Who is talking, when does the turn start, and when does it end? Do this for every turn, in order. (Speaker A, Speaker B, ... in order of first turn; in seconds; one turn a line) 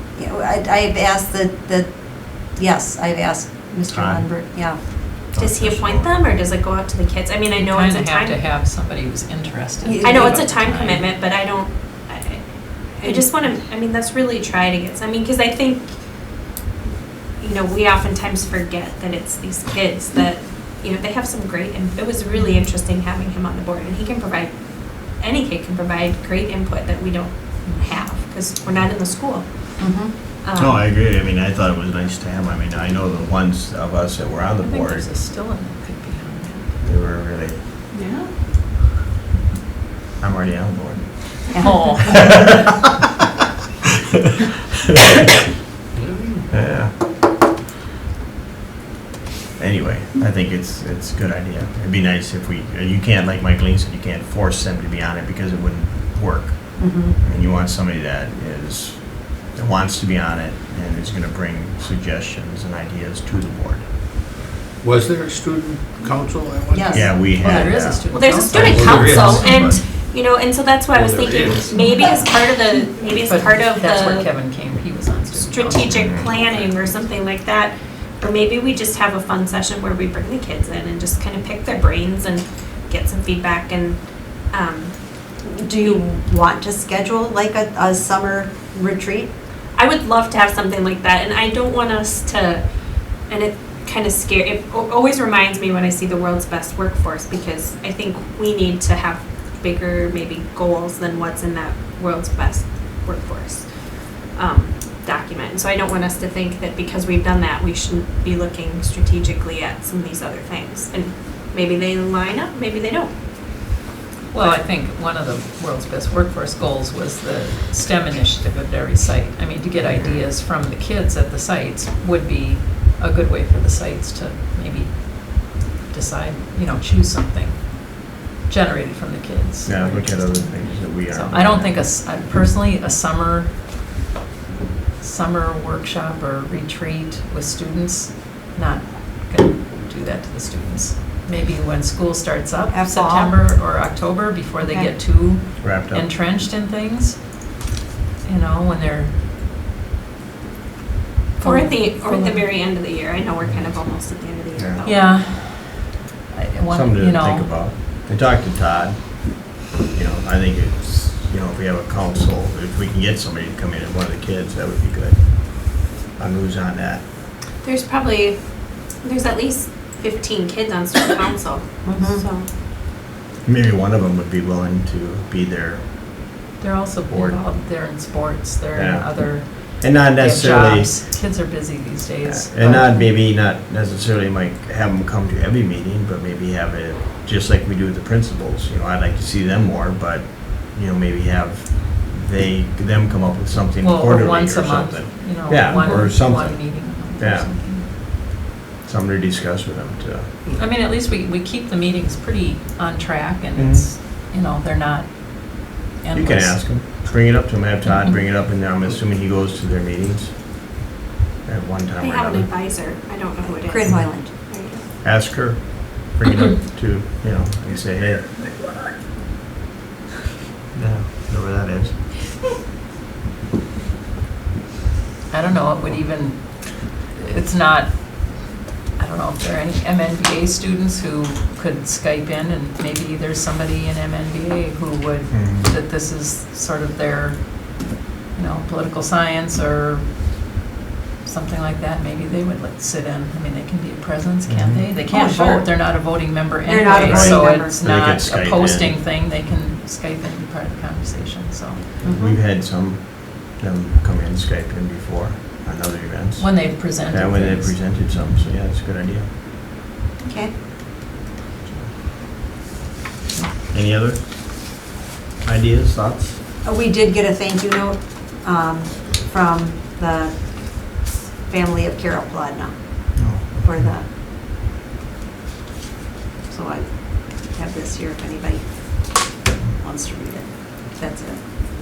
Speaker A: 0.1-4.8
Speaker B: 3.9-4.2
Speaker B: 5.1-6.2
Speaker C: 5.4-8.4
Speaker D: 7.5-11.1
Speaker A: 9.8-10.5
Speaker C: 10.0-16.0
Speaker C: 17.4-29.8
Speaker D: 22.4-22.6
Speaker A: 29.8-30.1
Speaker C: 30.4-30.8
Speaker B: 30.6-35.1
Speaker D: 34.6-36.8
Speaker B: 36.8-37.6
Speaker B: 40.2-41.7
Speaker A: 41.5-42.3
Speaker E: 45.9-46.5
Speaker B: 46.5-47.0
Speaker B: 49.6-63.9
Speaker A: 56.8-57.2
Speaker E: 64.8-67.1
Speaker A: 66.7-67.2
Speaker B: 66.9-69.0
Speaker D: 67.3-69.7
Speaker C: 68.1-74.3
Speaker E: 68.5-69.8
Speaker E: 70.9-71.8
Speaker D: 73.2-76.2
Speaker C: 75.3-85.1
Speaker B: 75.9-76.3
Speaker A: 85.4-89.3
Speaker C: 89.7-113.1
Speaker D: 114.3-133.7
Speaker B: 119.8-120.2
Speaker B: 129.6-131.8
Speaker D: 135.0-147.4
Speaker A: 142.7-143.3
Speaker A: 144.6-144.9
Speaker B: 145.6-146.0
Speaker D: 148.2-149.2
Speaker C: 151.4-155.0
Speaker D: 151.4-152.4
Speaker B: 153.4-154.8
Speaker D: 154.8-157.7
Speaker B: 156.7-167.0
Speaker C: 167.6-172.5
Speaker A: 171.8-172.2
Speaker B: 173.4-176.4
Speaker D: 176.6-183.1
Speaker B: 177.1-177.4
Speaker B: 178.7-180.9
Speaker B: 182.2-197.5
Speaker D: 193.8-197.9
Speaker B: 198.8-200.6
Speaker D: 200.6-206.7
Speaker B: 203.5-203.9
Speaker B: 206.1-210.4
Speaker D: 207.9-208.1
Speaker B: 211.4-212.5
Speaker C: 212.0-214.8
Speaker A: 213.4-214.3
Speaker B: 215.0-218.3
Speaker B: 220.7-221.9
Speaker D: 225.3-240.1
Speaker B: 235.3-235.7
Speaker D: 241.2-251.9
Speaker B: 244.4-244.9
Speaker A: 245.1-245.8
Speaker A: 246.7-247.8
Speaker B: 246.9-249.0
Speaker B: 252.0-259.3
Speaker A: 252.0-252.4
Speaker D: 256.4-258.5
Speaker A: 260.2-260.5
Speaker B: 263.5-264.7
Speaker B: 265.4-266.4
Speaker A: 266.6-274.1
Speaker B: 273.1-273.9
Speaker A: 276.5-281.4